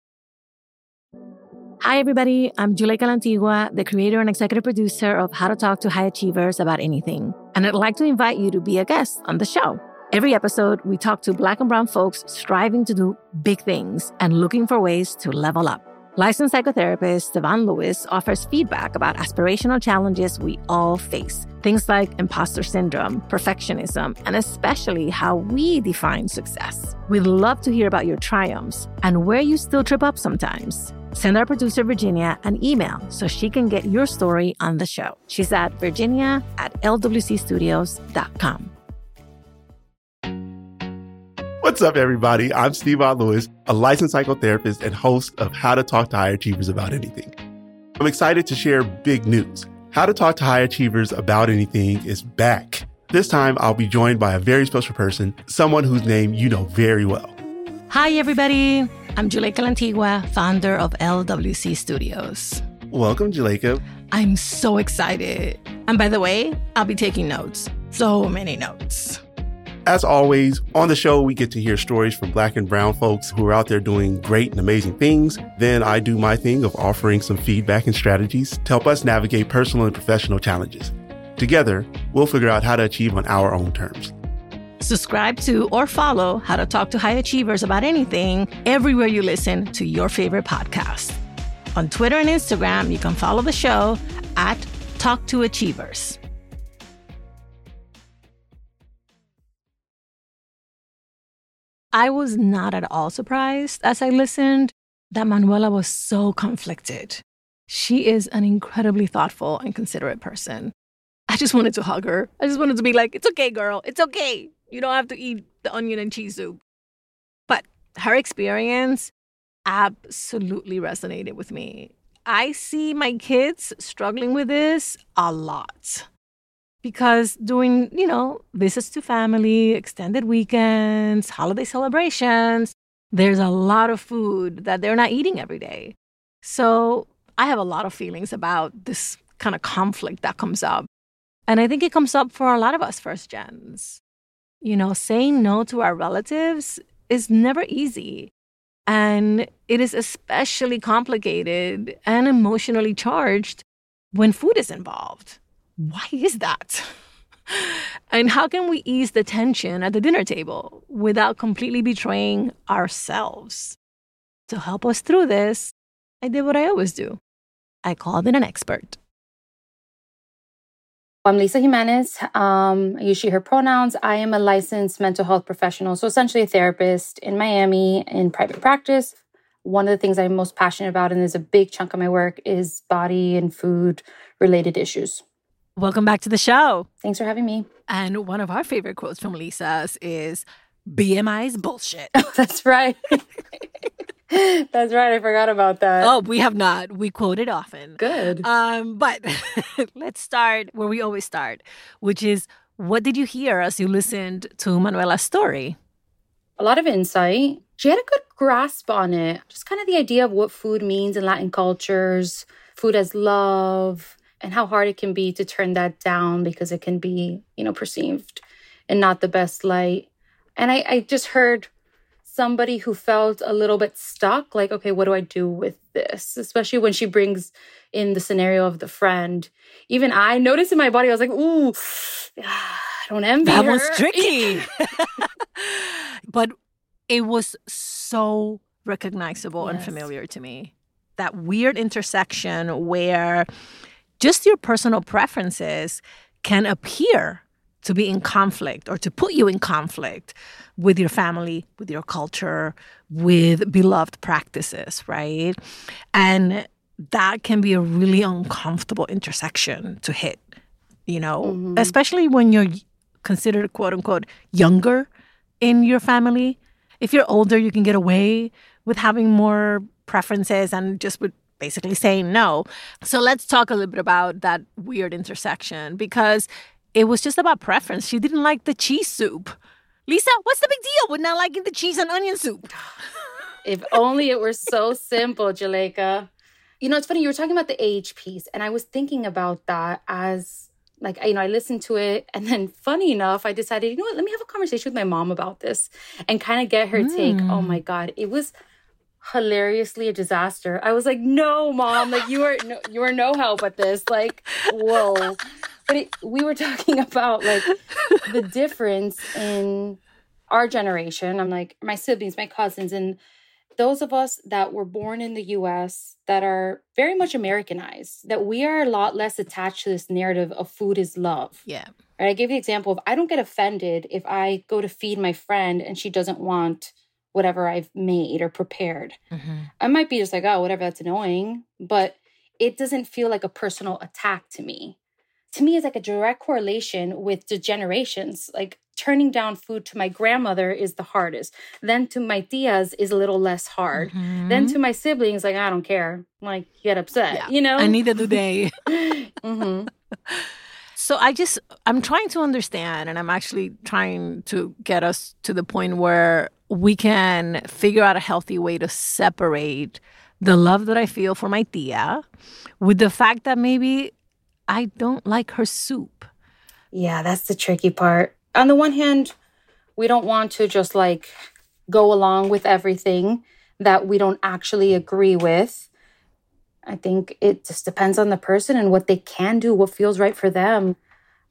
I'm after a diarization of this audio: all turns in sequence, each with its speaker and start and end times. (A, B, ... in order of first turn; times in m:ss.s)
0:01.8-0:38.7 A
0:41.6-0:47.4 B
0:48.0-0:57.3 B
0:57.9-1:02.6 A
1:02.9-1:03.8 B
1:04.1-1:09.2 A
1:09.8-1:24.1 B
1:24.8-1:31.2 A
1:31.7-1:36.2 A
1:41.9-1:50.7 A
1:51.3-1:56.6 A
1:57.5-1:59.1 A
1:59.7-2:06.1 A
2:06.8-2:20.9 A
2:21.5-2:24.0 A
2:24.6-2:28.3 A
2:28.9-2:36.9 A
2:37.5-2:43.8 A
2:44.5-2:47.2 A
2:47.8-2:49.0 A
2:51.2-3:05.2 C
3:05.8-3:06.9 A
3:07.0-3:07.7 C
3:07.9-3:12.3 A
3:12.2-3:13.2 C
3:14.3-3:16.1 C
3:16.0-3:25.8 A
3:18.0-3:18.5 C
3:26.6-3:41.7 C
3:42.3-3:54.6 C
3:53.4-3:56.5 A
3:57.1-4:03.5 A
3:59.6-4:00.1 C
4:04.2-4:15.6 A
4:16.1-4:20.5 A
4:21.1-4:25.1 A
4:21.4-4:21.9 C
4:25.6-4:39.6 A
4:40.1-4:42.7 A
4:43.6-4:46.3 C
4:46.8-4:58.5 C
4:56.9-4:57.8 A
4:59.2-5:10.0 C
5:07.7-5:08.2 A
5:10.5-5:13.2 C
5:13.8-5:21.6 C
5:21.7-5:21.9 A
5:22.2-5:29.2 C
5:29.3-5:29.7 A
5:29.8-5:35.0 C
5:35.5-5:48.4 C
5:43.9-5:44.8 A
5:47.3-5:48.7 A
5:48.9-5:49.9 C
5:51.0-6:02.2 A
6:02.8-6:04.1 A
6:04.7-6:06.3 A
6:06.9-6:09.3 C
6:10.0-6:11.3 C
6:11.9-6:15.9 C
6:16.9-6:21.0 C